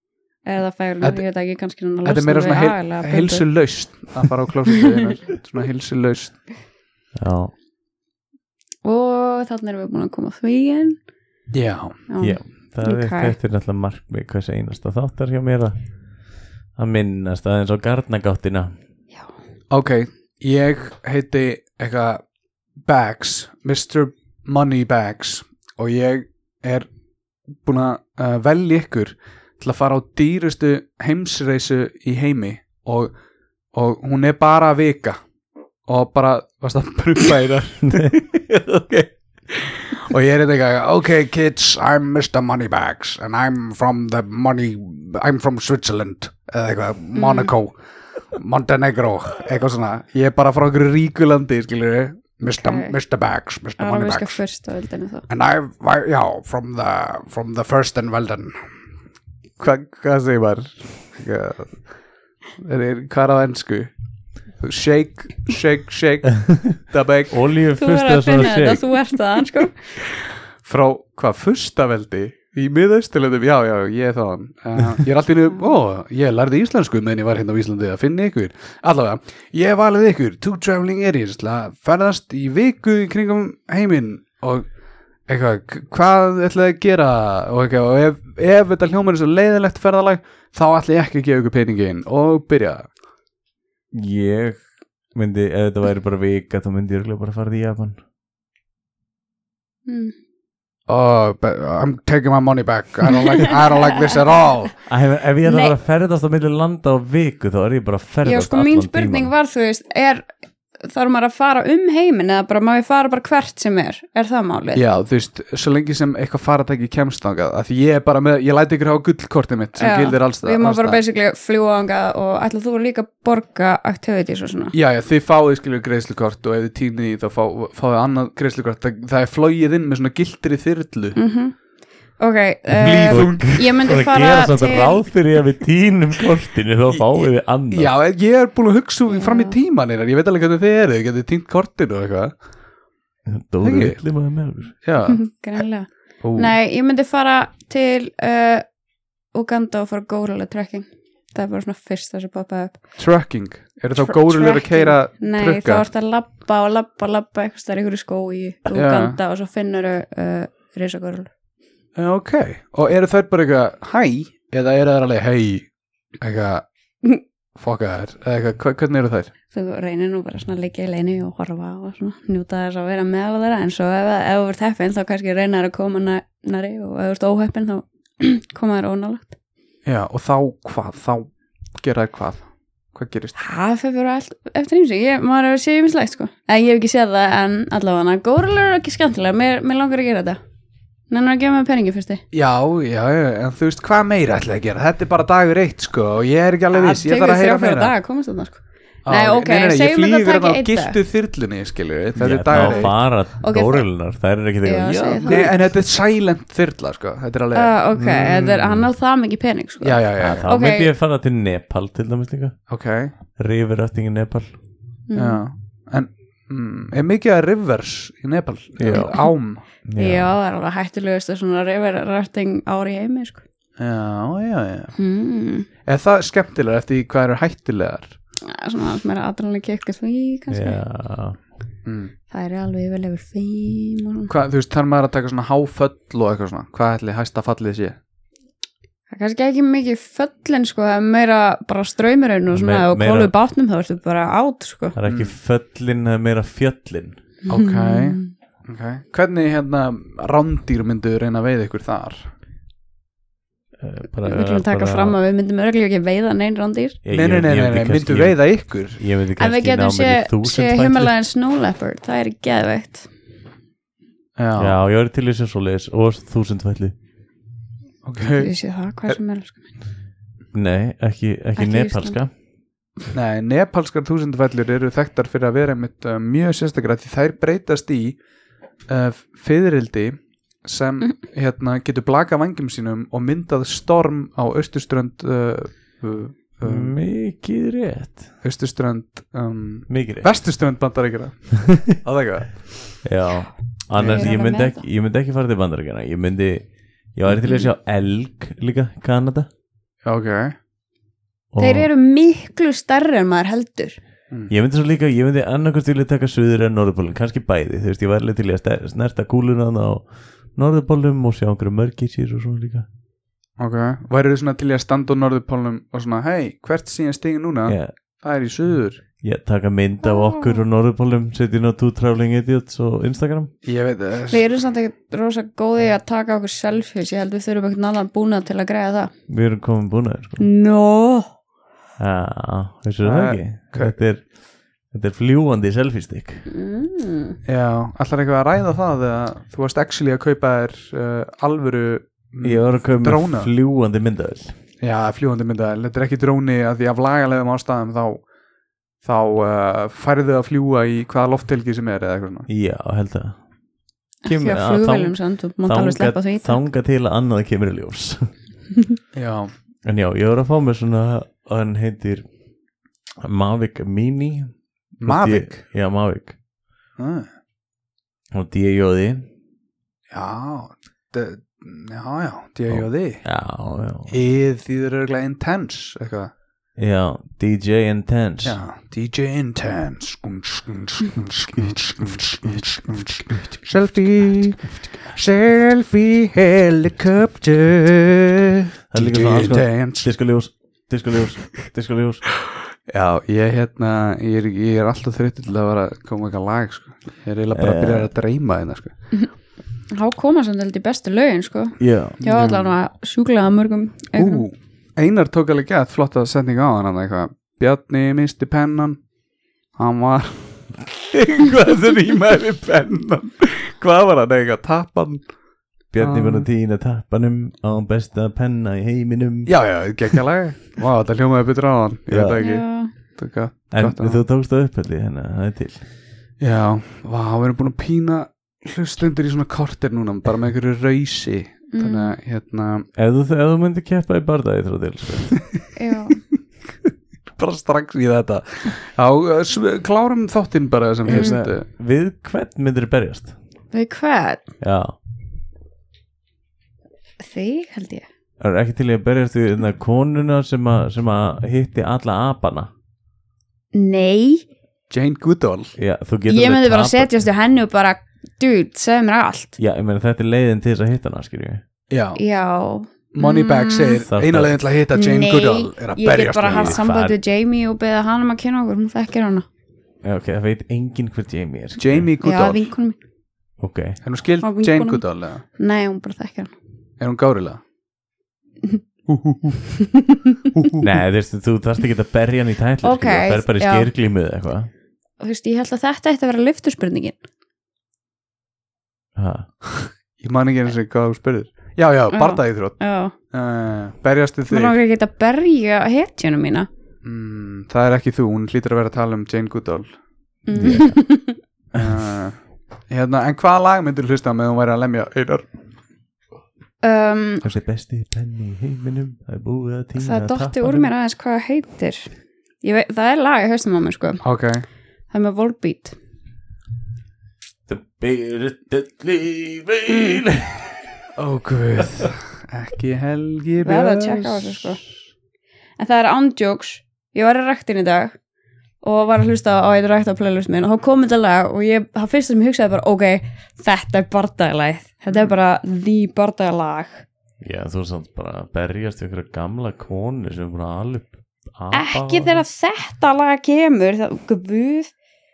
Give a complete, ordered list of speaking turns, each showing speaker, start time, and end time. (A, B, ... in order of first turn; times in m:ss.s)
0:00.4-0:03.4 A
0:02.0-0:06.4 B
0:07.2-0:07.5 C
0:08.8-0:11.0 A
0:11.5-0:12.0 B
0:12.1-0:13.3 A
0:12.2-0:15.8 C
0:16.8-0:18.7 C
0:19.7-0:22.2 B
0:22.8-0:26.9 B
0:27.6-0:33.1 B
0:33.7-0:35.2 B
0:35.8-0:47.7 B
0:37.9-0:38.1 C
0:47.1-0:47.5 A
0:48.3-0:54.4 B
0:52.6-0:52.9 A
0:53.8-0:55.2 A
0:55.3-0:58.7 B
0:59.6-1:01.8 B
1:02.6-1:03.9 B
1:04.6-1:07.4 B
1:07.3-1:09.0 C
1:07.8-1:09.8 A
1:10.6-1:24.7 B
1:25.3-1:32.9 B
1:33.9-1:38.0 C
1:39.9-1:40.1 A
1:40.9-1:44.7 B
1:44.9-1:49.3 C
1:45.4-1:45.7 A
1:48.2-1:50.2 A
1:50.8-1:54.8 A
1:54.7-2:01.0 B
1:59.8-2:04.7 A
2:04.7-2:11.2 B
2:11.1-2:11.5 A
2:12.2-2:15.0 A
2:12.8-2:13.9 B
2:12.8-2:17.9 C
2:17.7-2:22.4 B
2:19.1-2:19.6 A
2:23.3-2:24.7 C
2:23.6-2:24.0 B
2:24.8-2:25.2 B
2:25.1-2:28.6 A
2:26.2-2:26.5 B
2:29.3-2:32.8 A
2:33.0-2:35.8 B
2:34.0-2:41.3 A
2:38.7-2:39.2 B
2:41.9-2:45.7 B
2:46.2-2:46.6 B
2:47.5-2:49.3 B
2:49.5-2:59.3 A
2:59.8-3:03.4 B
3:03.4-3:10.4 A
3:11.1-3:12.2 A
3:12.3-3:17.9 B
3:16.7-3:21.0 A
3:19.0-3:22.9 B
3:22.2-3:25.7 C
3:22.5-3:23.8 A
3:24.6-3:25.5 A
3:25.2-3:27.7 B
3:27.5-3:30.9 A
3:27.9-3:28.9 C
3:29.8-3:30.5 B
3:30.2-3:32.6 C
3:32.7-3:33.1 B
3:33.4-3:34.5 C
3:35.1-3:35.4 A
3:35.1-3:39.6 B
3:38.8-3:39.3 C
3:38.9-3:39.2 A
3:39.8-3:40.3 C
3:40.0-3:43.4 A
3:43.8-3:44.9 B
3:45.0-3:45.7 A
3:45.8-3:48.1 B
3:48.4-3:50.8 A
3:50.5-3:51.4 C
3:51.8-3:52.1 B
3:52.3-3:54.3 A
3:54.3-3:58.0 B
3:59.1-4:04.9 A
4:02.5-4:03.3 C
4:05.0-4:07.2 C
4:05.0-4:05.3 B
4:07.4-4:08.3 A
4:07.5-4:12.3 B
4:13.8-4:15.2 C
4:14.2-4:17.0 A
4:17.0-4:21.1 C
4:17.1-4:19.0 B
4:19.4-4:23.1 A
4:24.4-4:24.8 B
4:24.6-4:26.9 C
4:28.0-4:28.5 B
4:28.4-4:29.7 A
4:30.5-4:32.3 C
4:31.6-4:32.2 A
4:33.1-4:38.2 B
4:38.9-4:47.0 B
4:46.6-4:48.3 C
4:48.4-4:52.6 B
4:49.9-4:50.3 C
4:53.0-4:59.5 C
4:53.9-4:54.3 B
4:54.0-4:54.8 A
5:00.0-5:00.5 B
5:01.5-5:01.9 C
5:01.6-5:04.0 A
5:04.5-5:12.9 C
5:13.6-5:19.0 B
5:17.7-5:17.9 C
5:19.2-5:23.5 C
5:20.0-5:20.6 A
5:23.6-5:24.4 B
5:24.3-5:29.1 A
5:29.3-5:30.5 C
5:30.4-5:31.3 A
5:32.0-5:34.4 C
5:33.0-5:33.9 B
5:34.9-5:36.4 C
5:36.5-5:37.4 A
5:37.4-5:43.5 B
5:42.4-5:44.5 C
5:44.8-5:48.2 B
5:49.0-5:52.5 B
5:52.5-5:53.4 C
5:54.2-5:56.6 A
5:54.2-5:58.3 C
5:59.1-5:59.5 B
5:59.8-6:02.2 C
6:03.2-6:06.4 C
6:05.0-6:05.6 B
6:07.0-6:07.3 B
6:08.3-6:09.2 C
6:10.1-6:13.2 B
6:12.7-6:14.1 C
6:14.1-6:16.3 B
6:16.8-6:18.6 C
6:18.4-6:30.1 B
6:28.9-6:32.3 C
6:32.9-6:38.9 B
6:37.5-6:38.1 C
6:39.9-6:44.4 A
6:41.8-6:42.2 C
6:42.2-6:42.7 B
6:44.2-6:49.0 B
6:49.8-6:55.3 B
6:55.9-6:59.6 C
6:56.0-6:56.5 B
6:59.4-7:02.6 B
7:02.1-7:02.4 C
7:02.4-7:02.9 A
7:03.1-7:04.2 B
7:03.7-7:05.8 C
7:06.4-7:12.8 B
7:11.7-7:12.1 A
7:13.0-7:15.4 C
7:15.8-7:16.2 A
7:17.4-7:21.6 B
7:21.1-7:21.4 A
7:21.1-7:23.3 C
7:23.7-7:24.5 A
7:24.6-7:24.9 C
7:27.2-7:28.0 A
7:28.4-7:32.7 C
7:33.7-7:34.4 A
7:34.9-7:35.7 B
7:35.8-7:37.1 C
7:36.3-7:39.6 A
7:39.6-7:41.6 C
7:41.9-7:42.2 B
7:42.1-7:44.0 A
7:43.1-7:46.8 B
7:44.0-7:44.6 C
7:44.9-7:49.4 A
7:46.4-7:47.2 C
7:50.0-7:52.1 C
7:51.8-7:52.7 B
7:52.2-7:53.0 A
7:53.6-7:54.0 C
7:54.0-7:55.4 B
7:54.4-7:55.0 A
7:55.6-7:56.5 A
7:57.0-7:57.6 B
7:59.1-7:59.7 B
7:59.9-8:00.4 A
8:00.5-8:00.9 B
8:00.8-8:04.7 C
8:02.8-8:03.9 A
8:05.2-8:07.2 A
8:09.2-8:09.5 C
8:09.6-8:12.8 B
8:12.1-8:13.1 A
8:13.3-8:14.8 B
8:14.5-8:16.7 A
8:17.0-8:19.9 B
8:20.5-8:21.4 A
8:20.5-8:21.0 C
8:21.7-8:25.5 B
8:26.8-8:27.4 A
8:27.4-8:30.9 C
8:30.0-8:32.1 A
8:32.6-8:34.2 A
8:34.2-8:34.6 B
8:35.1-8:36.0 A
8:37.7-8:40.8 C
8:41.2-8:44.7 B
8:43.6-8:44.8 A
8:45.8-8:48.2 A
8:48.8-8:57.0 A
8:57.4-9:02.4 C
9:01.7-9:04.9 A